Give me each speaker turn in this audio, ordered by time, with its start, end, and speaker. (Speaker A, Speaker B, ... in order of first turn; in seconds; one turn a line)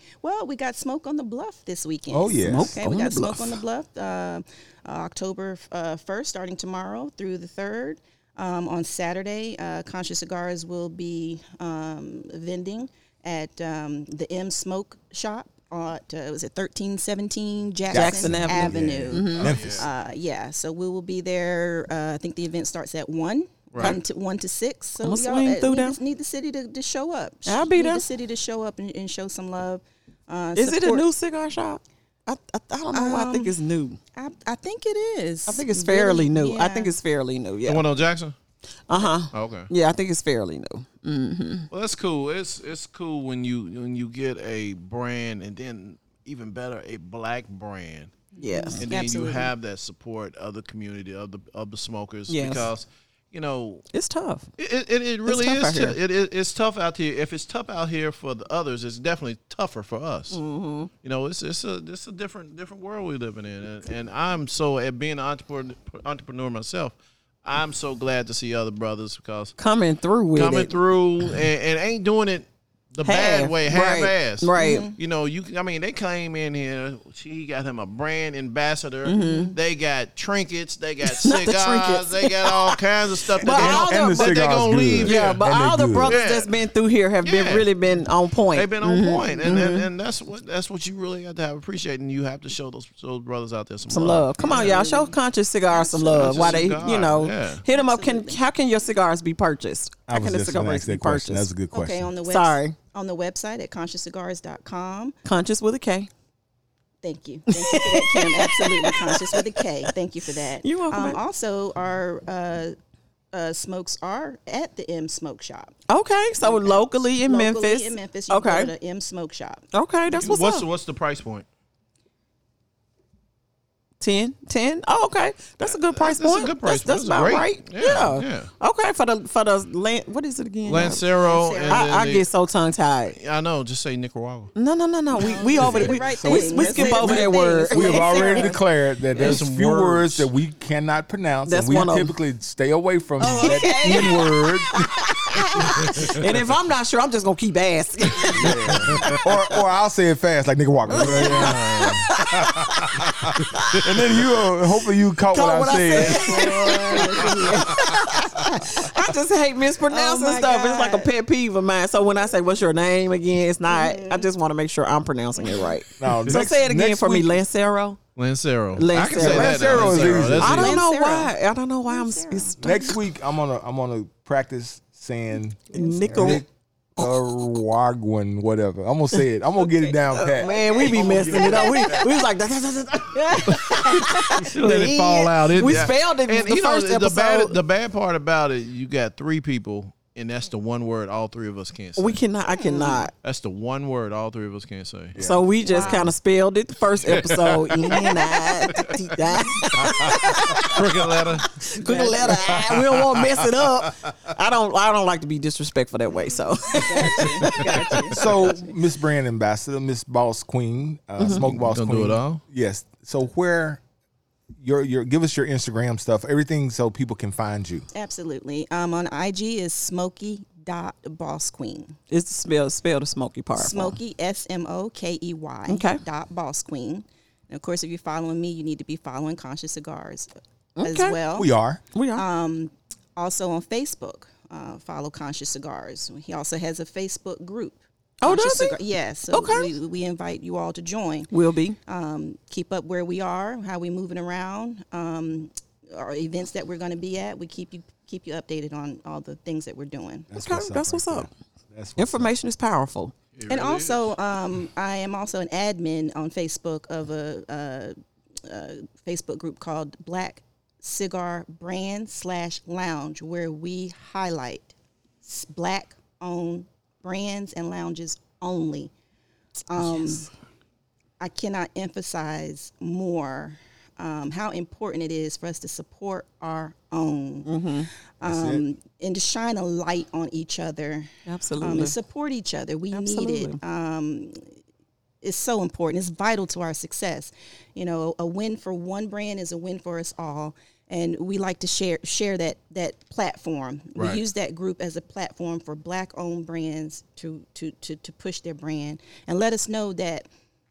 Speaker A: 0.2-31.1
Speaker B: 2.1-2.8
Speaker C: 2.4-3.6
Speaker B: 17.9-19.9
Speaker C: 17.9-19.5
Speaker D: 19.3-19.9
Speaker D: 23.7-24.0
Speaker C: 25.0-26.0
Speaker C: 27.5-28.1
Speaker C: 30.6-34.0
Speaker A: 32.9-33.5
Speaker A: 34.1-37.0
Speaker C: 35.5-37.8
Speaker D: 37.7-38.4
Speaker C: 38.9-41.7
Speaker D: 39.3-39.7
Speaker D: 41.7-48.1
Speaker A: 48.4-49.5
Speaker C: 48.4-48.8
Speaker D: 48.8-53.9
Speaker C: 52.3-52.7
Speaker C: 53.9-54.5
Speaker D: 54.6-60.4
Speaker C: 55.3-56.0
Speaker C: 60.3-60.9
Speaker D: 61.0-69.6
Speaker C: 69.6-70.7
Speaker D: 70.3-85.5
Speaker C: 73.0-74.9
Speaker A: 74.6-75.0
Speaker C: 79.0-79.5
Speaker C: 81.0-82.8
Speaker C: 83.3-84.4
Speaker B: 83.5-86.2
Speaker C: 85.0-89.9
Speaker D: 86.0-86.5
Speaker D: 87.2-87.7
Speaker D: 88.5-94.8
Speaker C: 93.9-101.5
Speaker A: 94.4-95.2
Speaker A: 95.7-96.9
Speaker D: 96.1-97.6
Speaker A: 97.7-98.4
Speaker B: 100.1-102.1
Speaker A: 101.7-105.2
Speaker C: 102.3-102.8
Speaker C: 105.2-106.1
Speaker A: 107.0-112.8
Speaker C: 107.5-109.9
Speaker C: 110.6-111.2
Speaker A: 113.3-115.7
Speaker C: 115.9-118.7
Speaker A: 116.4-119.7
Speaker C: 119.7-120.7
Speaker D: 120.2-121.5
Speaker C: 124.0-131.1
Speaker D: 125.7-128.5
Speaker D: 130.7-132.3
Speaker A: 131.2-132.0
Speaker C: 131.7-133.2
Speaker D: 133.2-134.5
Speaker C: 134.6-138.6
Speaker A: 135.1-138.6
Speaker B: 135.6-144.9
Speaker D: 139.1-140.3
Speaker C: 141.5-142.1
Speaker C: 143.2-149.2
Speaker A: 143.2-144.1
Speaker B: 148.3-151.6
Speaker D: 148.3-149.2
Speaker D: 150.9-152.1
Speaker C: 150.9-153.9
Speaker B: 152.4-156.7
Speaker C: 155.3-168.0
Speaker A: 156.0-157.9
Speaker A: 159.9-161.1
Speaker A: 163.7-164.3
Speaker B: 166.0-167.4
Speaker D: 168.2-170.8
Speaker C: 168.8-172.8
Speaker B: 169.1-170.7
Speaker A: 170.4-171.3
Speaker A: 171.9-173.0
Speaker B: 172.6-182.0
Speaker C: 175.7-176.4
Speaker A: 175.8-176.4
Speaker C: 180.1-187.6
Speaker A: 180.3-182.1
Speaker D: 183.5-192.2
Speaker C: 192.0-193.1
Speaker A: 192.6-193.1
Speaker D: 193.2-195.2
Speaker B: 195.2-195.5
Speaker C: 195.2-208.1
Speaker A: 195.7-196.1
Speaker D: 195.8-196.1
Speaker D: 197.0-199.1
Speaker D: 200.6-201.7
Speaker A: 201.8-202.4
Speaker A: 206.7-208.6
Speaker D: 207.4-208.1
Speaker B: 208.1-213.8
Speaker C: 211.2-211.4
Speaker D: 211.4-212.4
Speaker B: 214.6-217.8
Speaker A: 217.9-222.0
Speaker C: 222.1-224.0
Speaker A: 223.6-230.3
Speaker C: 225.7-226.0
Speaker C: 230.8-231.2
Speaker A: 230.8-231.5
Speaker B: 231.3-231.8
Speaker C: 231.9-232.2
Speaker A: 232.2-241.3
Speaker C: 238.2-239.7
Speaker C: 241.3-241.8
Speaker A: 241.9-250.3
Speaker B: 250.3-252.3
Speaker C: 250.3-251.3
Speaker C: 252.0-253.1
Speaker D: 253.4-254.1
Speaker A: 253.5-257.9
Speaker A: 258.5-268.9
Speaker A: 269.7-270.3
Speaker A: 271.2-277.5
Speaker C: 277.4-277.9
Speaker A: 278.2-281.1
Speaker B: 278.2-278.6
Speaker C: 281.3-282.0
Speaker A: 281.6-284.4
Speaker C: 282.9-283.6
Speaker A: 285.2-300.3
Speaker D: 294.0-294.2